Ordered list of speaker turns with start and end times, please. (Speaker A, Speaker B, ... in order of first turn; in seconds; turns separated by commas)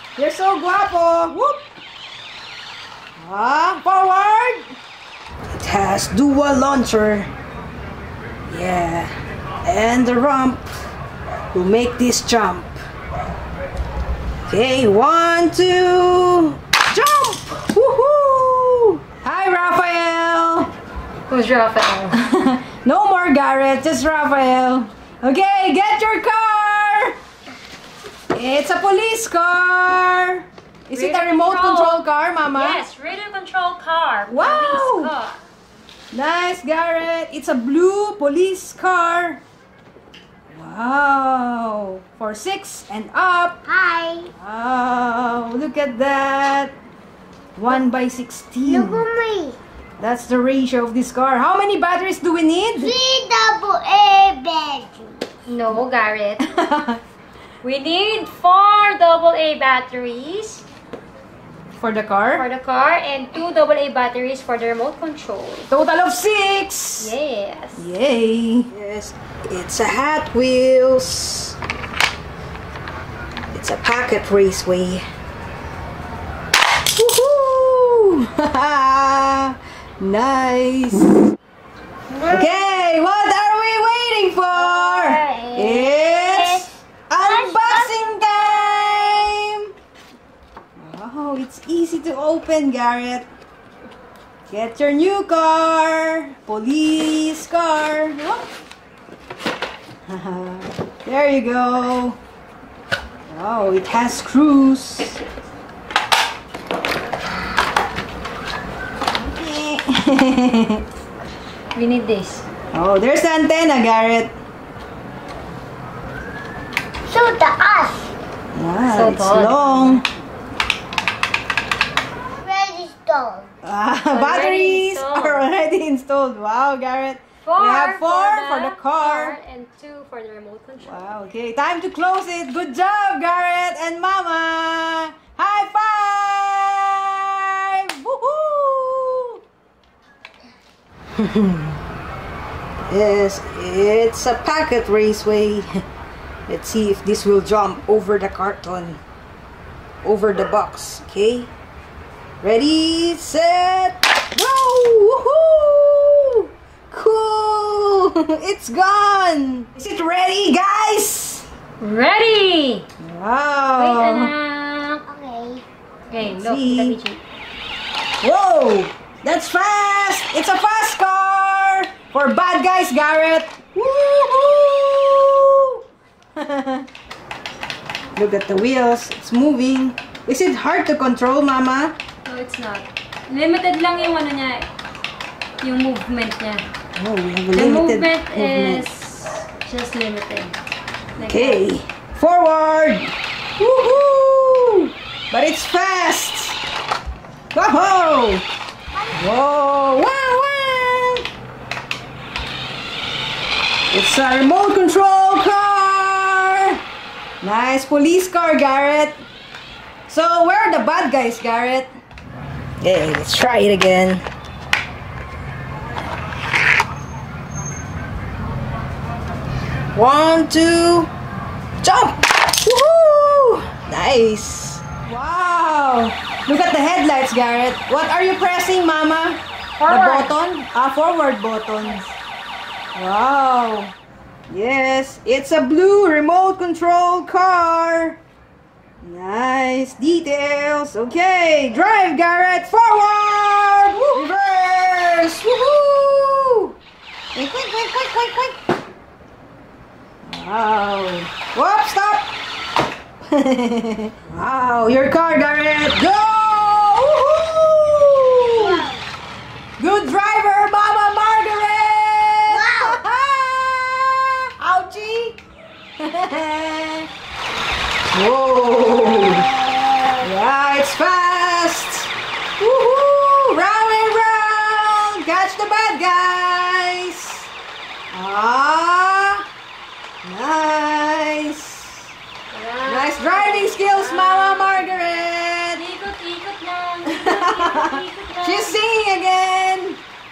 Speaker A: 0.1-1.7, Speaker A: 3.2-4.7, Speaker A: 5.5-7.3, Speaker A: 8.5-10.8, Speaker A: 11.5-12.8, Speaker A: 14.5-20.7, Speaker B: 21.3-22.2, Speaker A: 22.1-27.2, Speaker A: 28.3-32.8, Speaker B: 30.9-35.4, Speaker A: 34.3-35.1, Speaker A: 36.1-39.4, Speaker A: 40.5-43.6, Speaker C: 43.7-44.3, Speaker A: 44.4-46.7, Speaker A: 47.5-49.0, Speaker C: 48.7-49.6, Speaker A: 50.0-53.0, Speaker C: 52.8-55.3, Speaker B: 55.5-56.5, Speaker A: 56.4-57.0, Speaker B: 57.6-60.6, Speaker A: 61.8-62.5, Speaker B: 62.3-65.7, Speaker A: 65.7-67.1, Speaker B: 67.0-67.9, Speaker A: 67.8-71.5, Speaker A: 73.5-75.0, Speaker A: 76.8-81.1, Speaker C: 82.1-82.5, Speaker A: 82.3-89.7, Speaker C: 84.7-86.7, Speaker C: 87.2-88.0, Speaker A: 90.8-93.2, Speaker A: 94.5-98.5, Speaker A: 100.1-102.2, Speaker A: 103.3-105.2, Speaker A: 109.1-110.8, Speaker B: 111.8-112.4, Speaker A: 112.7-114.3, Speaker C: 117.1-118.1, Speaker A: 118.5-120.0, Speaker B: 118.8-120.0, Speaker C: 122.4-123.5, Speaker A: 123.6-129.4, Speaker B: 124.1-125.5, Speaker B: 127.4-131.2, Speaker A: 130.8-139.4, Speaker A: 141.2-141.8, Speaker A: 142.9-145.7, Speaker A: 146.5-149.0, Speaker A: 150.0-151.5, Speaker A: 152.4-161.4, Speaker B: 161.8-162.8, Speaker A: 163.0-164.3, Speaker B: 163.8-165.0, Speaker C: 165.1-165.7, Speaker B: 166.1-167.2, Speaker A: 166.2-167.0, Speaker A: 168.2-175.8, Speaker A: 176.4-176.9, Speaker A: 178.2-181.9, Speaker B: 182.2-184.7, Speaker B: 185.6-186.7, Speaker A: 186.9-189.4, Speaker B: 187.5-190.6, Speaker B: 191.2-191.7, Speaker A: 191.2-196.6, Speaker A: 197.5-198.4, Speaker A: 199.2-201.3, Speaker A: 203.9-206.8, Speaker A: 207.4-209.2, Speaker A: 210.1-211.9, Speaker A: 212.8-214.2, Speaker A: 219.9-221.1, Speaker A: 221.8-232.0, Speaker B: 229.8-230.4, Speaker B: 231.8-232.1, Speaker A: 232.9-233.9, Speaker A: 234.5-238.2, Speaker A: 239.0-246.7, Speaker A: 247.3-248.7, Speaker A: 250.2-252.3, Speaker A: 253.3-258.8, Speaker A: 259.8-265.4, Speaker C: 262.5-263.0, Speaker A: 266.0-267.1, Speaker A: 268.1-277.5, Speaker A: 278.1-279.4, Speaker A: 280.2-282.1, Speaker B: 282.5-285.2, Speaker A: 282.8-285.8, Speaker B: 285.7-288.8, Speaker A: 287.1-290.0